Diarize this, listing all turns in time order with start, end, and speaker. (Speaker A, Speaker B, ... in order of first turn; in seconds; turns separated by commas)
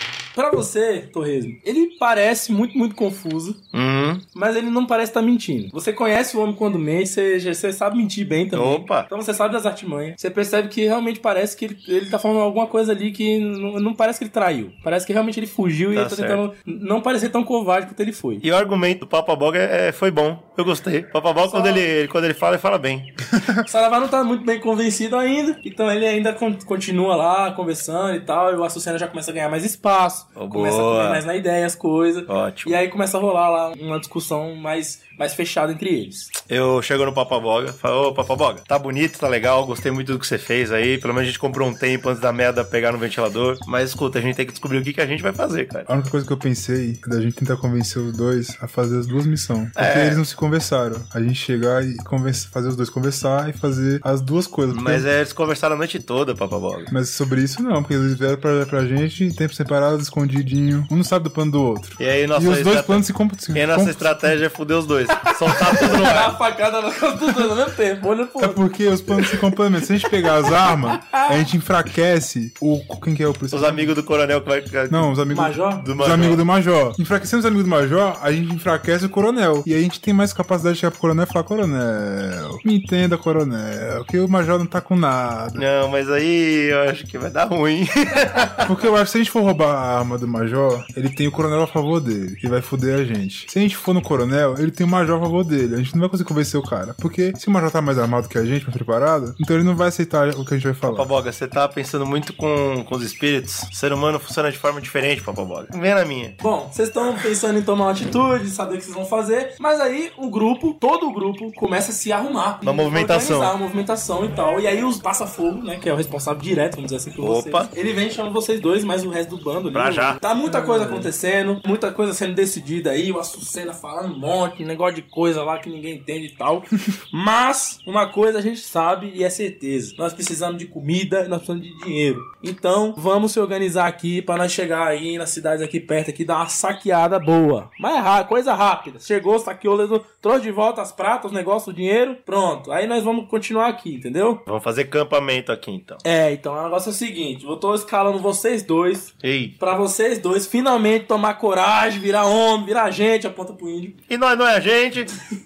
Speaker A: 0.3-3.6, Speaker B: 3.7-4.2, Speaker A: 4.3-18.4, Speaker B: 8.5-9.1, Speaker B: 15.9-16.4, Speaker B: 18.4-23.1, Speaker A: 21.5-21.8, Speaker A: 23.6-36.3, Speaker B: 30.4-31.2, Speaker B: 32.3-32.8, Speaker B: 36.5-45.9, Speaker C: 45.9-55.1, Speaker B: 49.8-50.2, Speaker B: 54.7-56.9, Speaker C: 56.9-64.4, Speaker B: 62.0-66.3, Speaker A: 65.7-68.6, Speaker C: 68.4-73.9, Speaker A: 71.0-71.4, Speaker B: 73.5-75.1, Speaker C: 74.9-85.6, Speaker A: 75.3-75.8, Speaker B: 75.8-76.4, Speaker B: 85.5-88.7, Speaker C: 88.6-101.1, Speaker B: 100.9-106.4, Speaker A: 106.4-144.4, Speaker B: 112.6-113.5, Speaker B: 117.2-117.7, Speaker B: 119.7-120.2, Speaker C: 120.5-121.1, Speaker B: 144.5-146.0, Speaker A: 146.0-153.9, Speaker B: 149.2-149.5, Speaker B: 154.1-155.1